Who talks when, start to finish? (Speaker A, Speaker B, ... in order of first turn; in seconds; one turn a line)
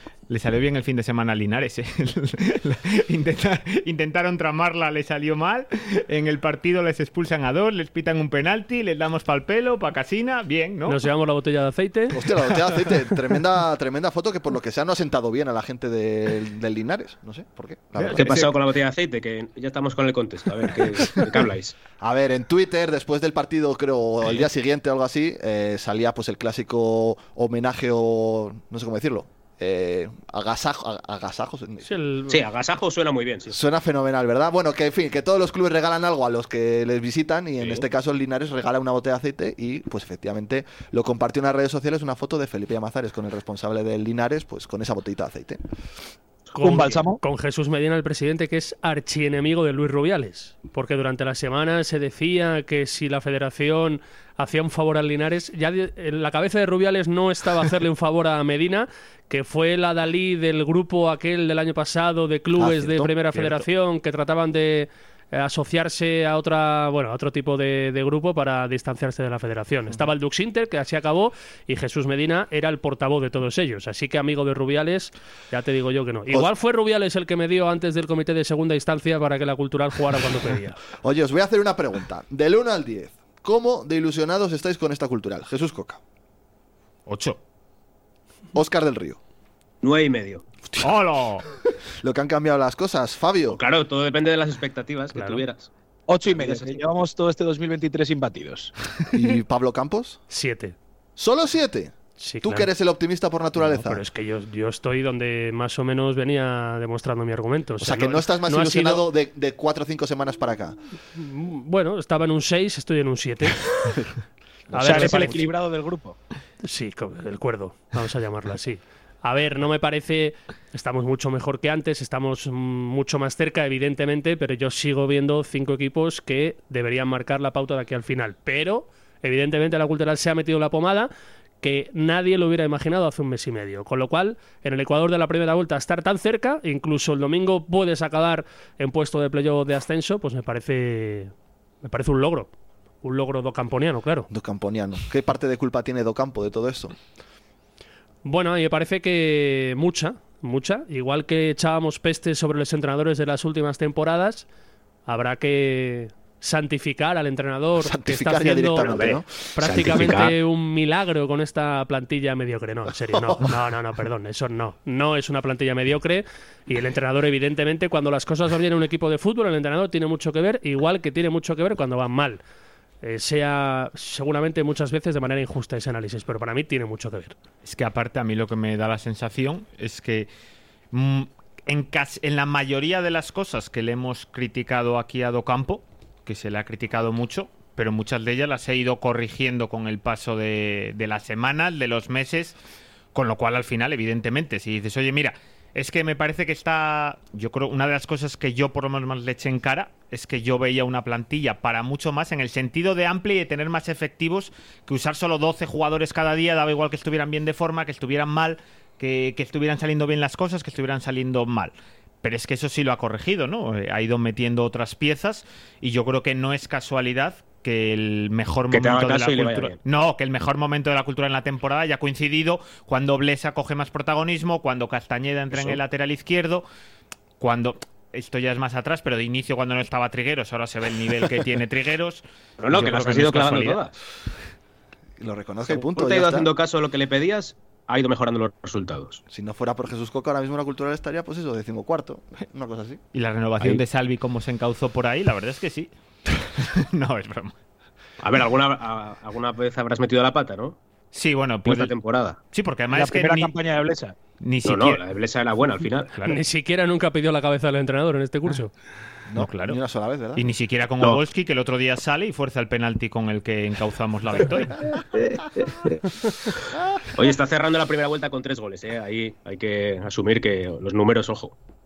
Speaker A: 0.3-11.0
Speaker B: 10.9-12.2
Speaker C: 12.1-18.6
Speaker D: 18.1-21.8
Speaker C: 22.0-31.9
Speaker B: 31.8-32.4
Speaker D: 32.3-33.5
Speaker C: 33.5-45.6
Speaker B: 46.5-80.8
Speaker E: 46.6-47.2
Speaker C: 62.6-63.7
Speaker C: 81.0-86.0
Speaker A: 87.1-87.4
Speaker C: 88.5-89.2
Speaker D: 89.8-90.4
Speaker A: 90.8-91.5
Speaker C: 92.0-93.6
Speaker D: 93.5-95.7
Speaker B: 95.2-95.4
Speaker E: 96.1-98.7
Speaker D: 96.3-96.8
Speaker C: 99.1-100.2
Speaker B: 100.3-100.8
Speaker C: 101.2-104.0
Speaker B: 102.2-102.7
Speaker B: 103.6-109.1
Speaker C: 107.8-110.8
Speaker B: 111.2-113.7
Speaker B: 114.7-115.5
Speaker C: 114.7-115.2
Speaker E: 114.8-116.2
Speaker B: 116.6-131.1
Speaker B: 131.6-141.3
Speaker B: 141.8-142.5
Speaker B: 143.0-144.3
Speaker C: 144.3-146.9
Speaker B: 148.2-154.5
Speaker B: 155.1-172.4
Speaker C: 157.8-159.3
Speaker D: 158.9-160.3
Speaker C: 163.1-163.4
Speaker B: 173.0-177.3
Speaker A: 177.6-180.3
Speaker A: 180.9-192.6
Speaker A: 193.1-226.7
Speaker D: 218.7-219.8
Speaker A: 227.4-233.8
Speaker D: 232.6-233.9
Speaker C: 235.2-236.5
Speaker D: 235.7-239.2
Speaker C: 239.3-243.0
Speaker A: 243.1-245.9
Speaker A: 246.6-247.5
Speaker D: 248.2-250.8
Speaker A: 251.1-251.9
Speaker D: 251.7-252.4
Speaker A: 252.5-253.5
Speaker E: 252.9-254.2
Speaker A: 254.4-255.0
Speaker D: 254.6-256.1
Speaker B: 256.2-258.7
Speaker C: 259.3-260.5
Speaker A: 259.4-259.8
Speaker A: 260.4-264.8
Speaker D: 265.0-266.0
Speaker D: 267.1-271.5